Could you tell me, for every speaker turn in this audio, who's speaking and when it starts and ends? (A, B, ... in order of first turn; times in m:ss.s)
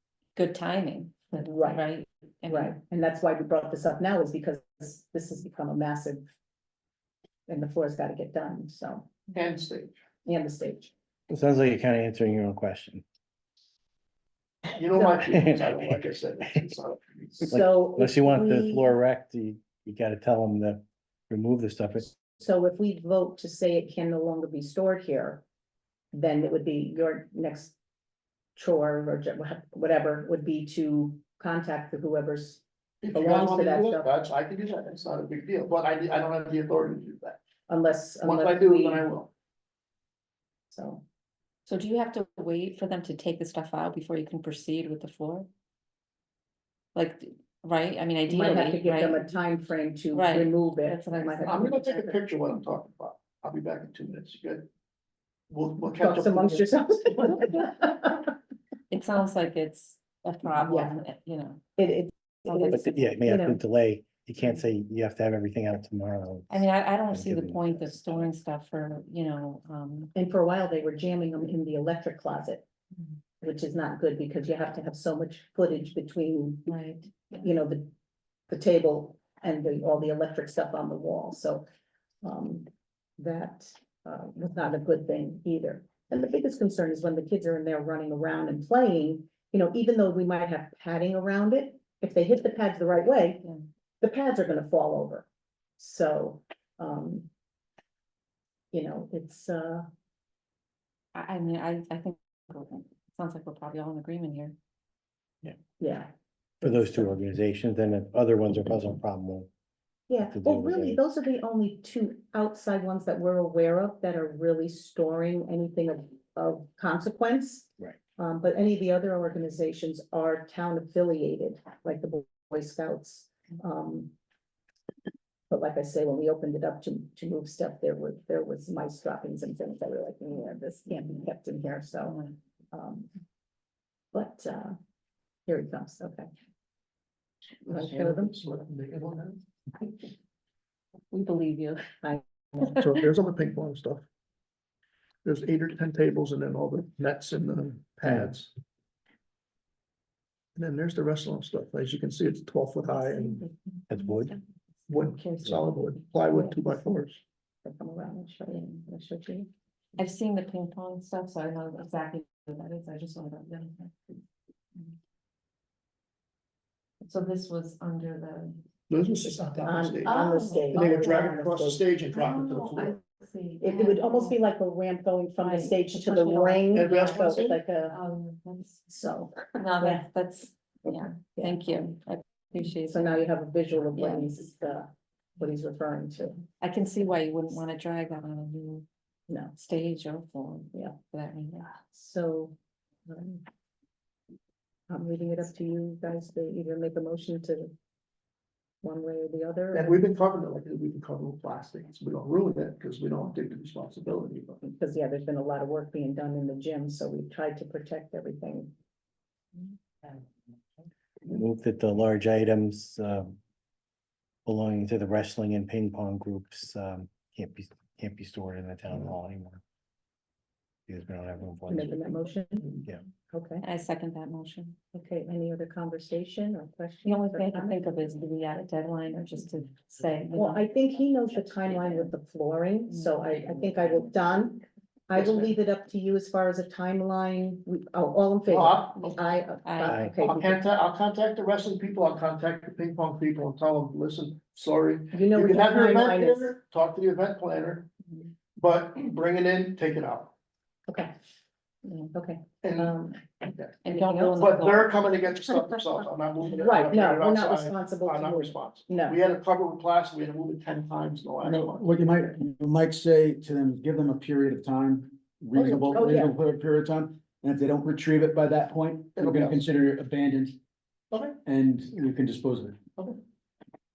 0:00.3-0:02.8 A
0:01.4-0:01.8 B
0:02.5-0:06.3 B
0:07.5-0:09.2 B
0:09.3-0:09.9 C
0:10.2-0:10.9 B
0:11.3-0:13.0 D
0:14.7-0:17.5 C
0:14.9-0:15.3 B
0:17.5-0:18.8 B
0:17.5-0:22.1 D
0:22.4-0:25.4 B
0:26.1-0:27.8 B
0:28.6-0:34.1 B
0:33.0-0:37.4 C
0:37.7-0:39.1 B
0:38.2-0:39.3 C
0:40.7-0:41.0 B
0:41.6-0:45.5 A
0:46.9-0:49.3 A
0:48.3-0:52.2 B
0:50.1-0:52.0 A
0:51.4-0:54.7 C
0:55.5-0:56.7 C
0:55.9-0:58.3 B
0:58.9-1:01.6 A
1:00.6-1:01.0 B
1:01.8-1:03.6 B
1:02.5-1:02.9 A
1:02.7-1:08.3 D
1:06.5-1:10.1 A
1:10.1-1:12.6 B
1:13.4-1:16.7 B
1:16.7-1:17.4 A
1:17.4-1:17.9 B
1:18.5-1:21.6 B
1:22.2-1:33.4 B
1:34.0-1:35.3 B
1:35.8-1:37.3 B
1:38.7-1:39.9 B
1:41.1-1:44.6 A
1:45.8-1:47.1 B
1:46.6-1:49.5 D
1:50.1-2:04.1 B
1:50.2-1:51.0 D
2:05.5-2:13.1 B
2:14.1-2:14.8 B
2:15.5-2:16.3 B
2:17.6-2:19.4 C
2:17.7-2:18.4 B
2:21.1-2:21.9 A
2:22.0-2:22.8 B
2:22.7-2:24.0 C
2:25.2-2:28.5 C
2:30.6-2:33.4 C
2:33.1-2:34.3 A
2:33.9-2:34.4 D
2:34.9-2:37.2 C
2:35.2-2:35.8 A
2:37.6-2:38.6 B
2:38.5-2:39.4 A
2:39.2-2:39.4 B
2:40.0-2:44.1 A
2:47.0-2:48.6 A
2:48.9-2:53.0 C
2:49.6-2:51.8 B
2:50.0-2:51.4 A
2:52.1-2:54.4 A
2:53.6-2:58.0 B
2:55.4-2:58.9 A
2:56.7-2:57.6 C
2:58.9-3:00.0 B
2:59.6-3:03.2 A
3:02.8-3:06.4 B
3:03.9-3:04.3 A
3:06.6-3:08.8 A
3:09.3-3:09.5 B
3:09.5-3:11.7 A
3:11.9-3:12.6 B
3:13.1-3:13.4 B
3:14.9-3:17.7 B
3:18.8-3:20.0 B
3:19.7-3:24.6 C
3:24.6-3:28.7 B
3:31.2-3:33.4 D
3:34.4-3:39.6 D
3:40.9-3:42.1 D
3:41.7-3:43.6 B
3:43.6-3:44.8 A
3:44.9-3:47.9 B
3:47.0-3:50.6 A
3:50.3-4:00.6 B
3:51.6-3:52.1 A
3:52.9-3:53.6 A
3:55.1-3:55.5 C
3:58.5-3:59.1 C
3:59.6-4:00.0 A
3:59.8-4:00.1 D
4:00.2-4:07.9 C
4:05.1-4:06.5 B
4:08.6-4:10.3 C
4:11.8-4:12.1 A
4:12.1-4:13.2 B
4:12.6-4:21.9 C
4:13.8-4:15.1 A
4:13.9-4:14.3 B
4:16.4-4:19.2 B
4:21.4-4:30.6 E
4:25.5-4:25.9 C
4:25.9-4:26.3 B
4:29.2-4:29.6 C
4:31.1-4:31.4 C
4:31.4-4:32.8 E